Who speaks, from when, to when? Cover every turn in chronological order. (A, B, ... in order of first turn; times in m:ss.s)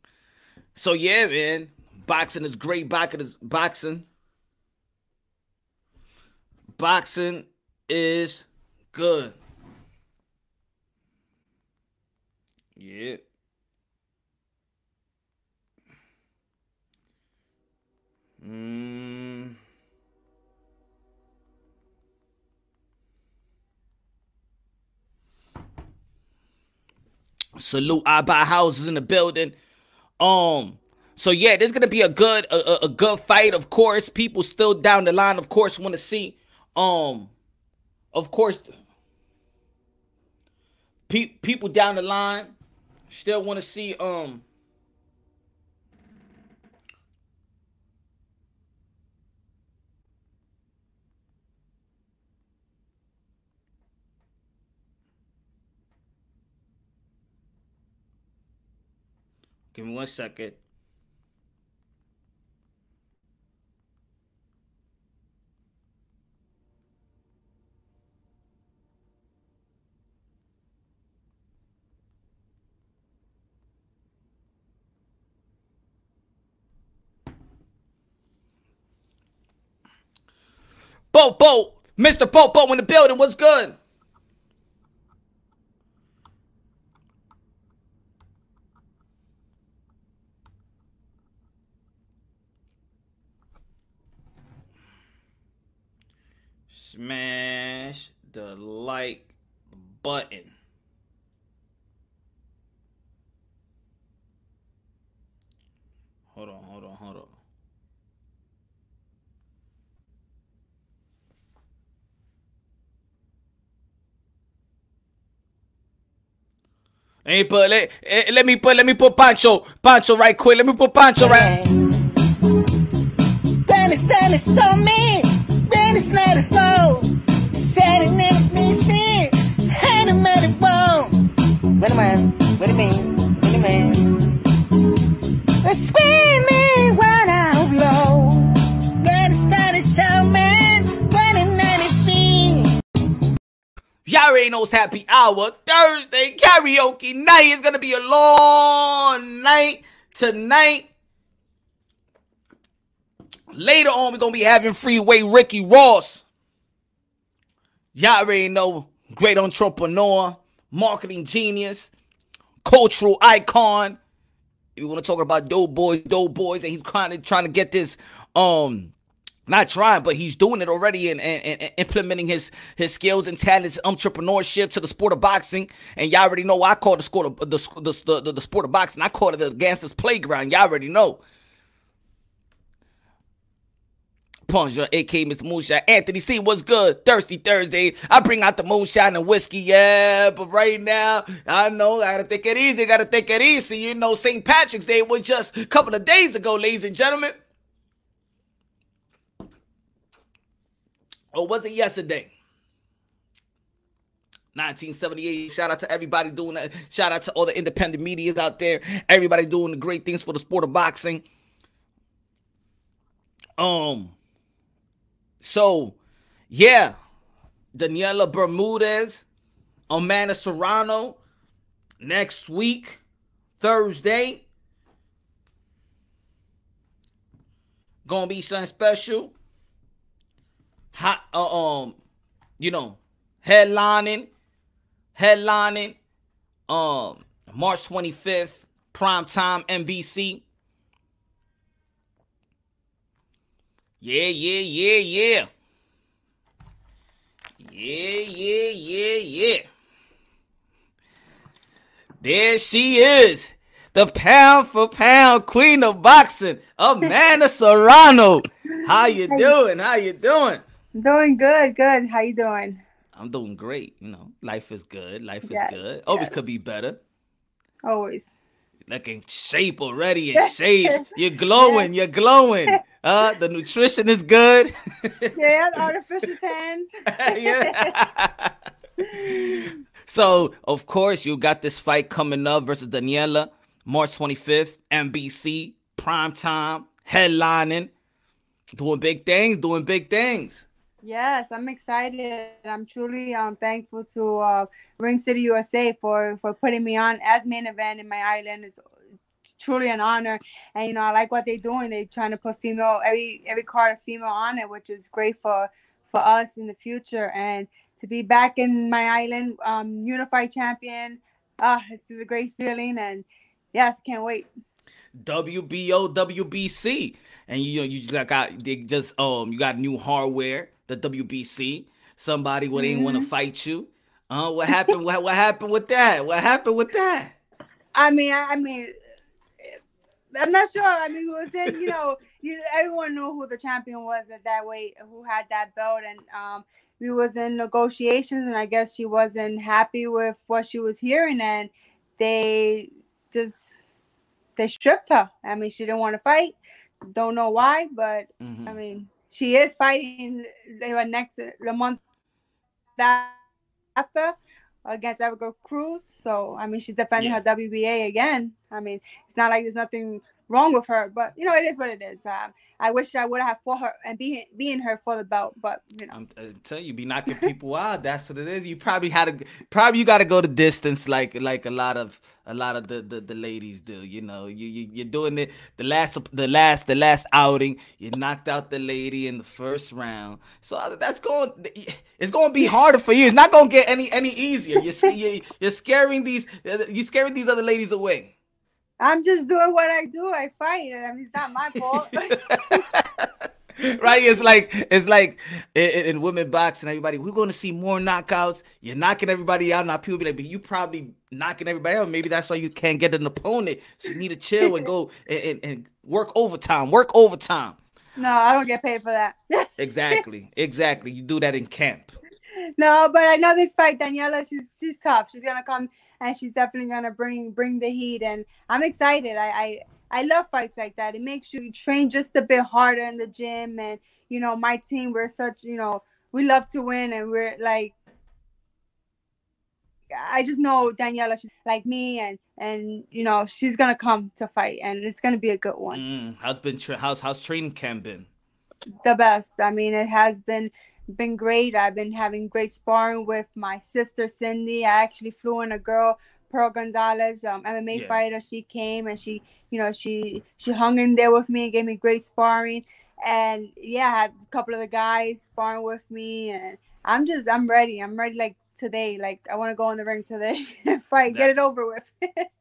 0:00.8-0:04.1 A
0:06.8-0:09.4 A
0:12.8-0:13.2 A
0:18.4-0:19.6 A
0:27.6-0:29.6 A
0:30.2-0:37.3 A
0:38.1-0:38.7 A
0:41.1-0:42.6 A
0:43.1-0:44.4 A
0:59.7-1:00.6 A
1:21.1-1:23.8 A
1:36.7-1:40.5 A
1:46.3-1:47.3 A
1:57.2-2:01.6 A
2:01.2-2:01.9 B
2:03.7-2:11.2 B
2:11.8-2:14.4 B
2:15.6-2:22.8 B
2:24.1-2:30.9 A
2:33.5-2:36.2 A
2:38.0-2:41.9 A
2:42.6-2:44.0 A
2:44.8-2:48.9 A
2:49.5-3:01.2 A
3:04.5-3:17.4 A
3:21.3-3:22.3 A
3:24.6-3:31.2 A
3:33.6-3:34.1 A
3:35.4-3:36.0 A
3:36.5-3:37.0 A
3:37.7-3:39.2 A
3:39.9-3:41.2 A
3:42.0-3:43.0 A
3:43.6-3:44.4 A
3:48.1-3:49.3 A
3:50.9-3:52.0 A
3:52.6-3:54.3 A
3:55.2-3:56.0 A
3:56.7-4:00.4 A
4:04.0-4:05.5 A
4:07.6-4:09.6 A
4:12.2-4:20.6 A
4:18.8-4:19.5 C
4:21.0-4:22.8 C
4:23.1-4:27.0 A
4:25.4-4:26.3 C
4:27.8-4:28.3 C
4:28.9-4:35.4 A
4:30.4-4:31.9 C
4:35.3-4:38.0 C
4:37.1-4:38.5 A
4:39.0-4:39.8 C
4:39.1-4:47.9 A
4:48.8-4:50.6 A
4:51.0-4:58.8 C
4:59.6-5:14.5 C
5:15.2-5:27.4 A
5:22.8-5:23.3 C
5:27.9-5:28.9 C
5:30.3-5:43.8 C
5:44.6-5:46.6 C
5:47.1-5:52.0 C
5:48.4-5:48.8 A
5:53.0-5:53.4 C
5:54.0-5:54.4 C
5:54.9-6:06.1 C
6:06.1-6:28.3 A
6:29.0-6:32.8 C
6:32.5-6:47.8 A
6:48.2-6:50.2 C
6:49.8-6:52.1 A
6:52.6-7:07.9 C
7:10.1-7:16.0 C
7:15.9-7:18.3 A
7:19.0-7:42.4 C
7:27.9-7:28.2 A